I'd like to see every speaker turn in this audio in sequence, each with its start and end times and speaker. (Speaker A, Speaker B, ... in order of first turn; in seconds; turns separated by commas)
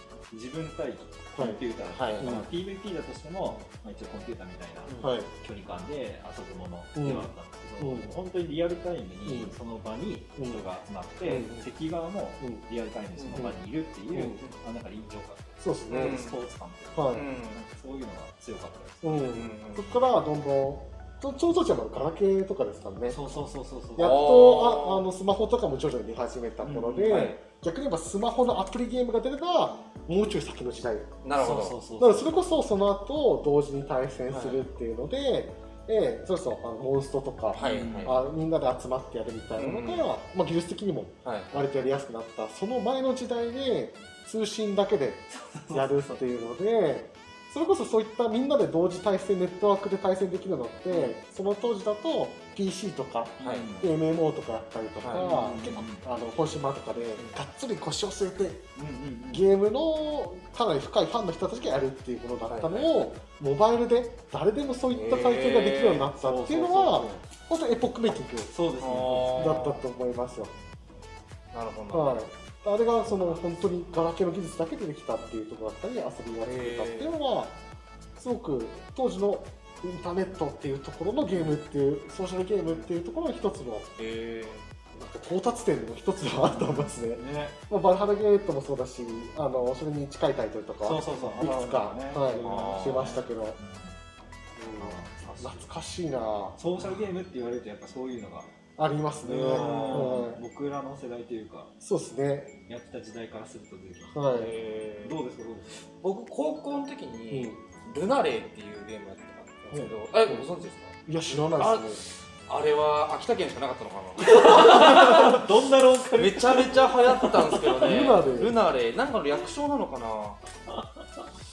Speaker A: 0.3-19.3, Speaker B: 1.9-2.4, Speaker C: 2.2-2.5, Speaker B: 4.9-5.1, Speaker C: 5.0-5.3, Speaker C: 7.0-8.2, Speaker C: 9.2-9.5, Speaker C: 10.4-10.7, Speaker C: 11.2-11.6, Speaker B: 13.2-13.5, Speaker C: 14.1-14.4, Speaker C: 15.6-16.2, Speaker B: 15.9-16.4, Speaker C: 16.9-17.3, Speaker B: 17.1-17.6, Speaker C: 19.0-23.3, Speaker B: 19.2-20.0, Speaker A: 23.1-24.2, Speaker C: 24.0-31.2, Speaker B: 24.0-25.1, Speaker A: 26.6-27.4, Speaker B: 27.1-27.4, Speaker B: 31.2-31.8, Speaker A: 31.3-32.4, Speaker C: 32.0-58.7, Speaker B: 34.3-34.6, Speaker B: 37.5-38.2, Speaker A: 37.6-38.2, Speaker B: 39.6-40.1, Speaker B: 41.2-41.5, Speaker A: 45.3-46.2, Speaker B: 50.9-51.2, Speaker A: 53.4-53.9, Speaker B: 53.4-53.7, Speaker B: 55.0-55.3, Speaker A: 55.1-56.0, Speaker A: 58.8-59.4, Speaker C: 59.3-70.5, Speaker B: 62.5-62.9, Speaker B: 64.9-66.1, Speaker A: 66.2-67.2, Speaker A: 68.5-69.5, Speaker B: 68.8-69.8, Speaker B: 71.5-72.2, Speaker C: 71.9-77.6, Speaker B: 76.5-77.1, Speaker C: 78.2-83.9, Speaker B: 84.0-84.7, Speaker C: 85.0-93.6, Speaker A: 86.4-87.6, Speaker A: 90.8-94.0, Speaker B: 92.4-93.1, Speaker C: 94.6-96.6, Speaker A: 94.8-95.7, Speaker A: 96.6-98.5, Speaker C: 98.8-100.4, Speaker A: 99.2-101.7, Speaker B: 99.3-100.2, Speaker C: 101.8-102.6, Speaker A: 102.7-104.2, Speaker C: 104.1-104.5, Speaker B: 104.3-105.2, Speaker A: 105.0-105.8, Speaker B: 106.0-115.4, Speaker C: 107.3-107.6, Speaker C: 109.7-110.5, Speaker C: 111.1-112.0, Speaker A: 114.2-117.7, Speaker C: 114.3-115.4, Speaker B: 116.1-120.4, Speaker C: 117.7-118.5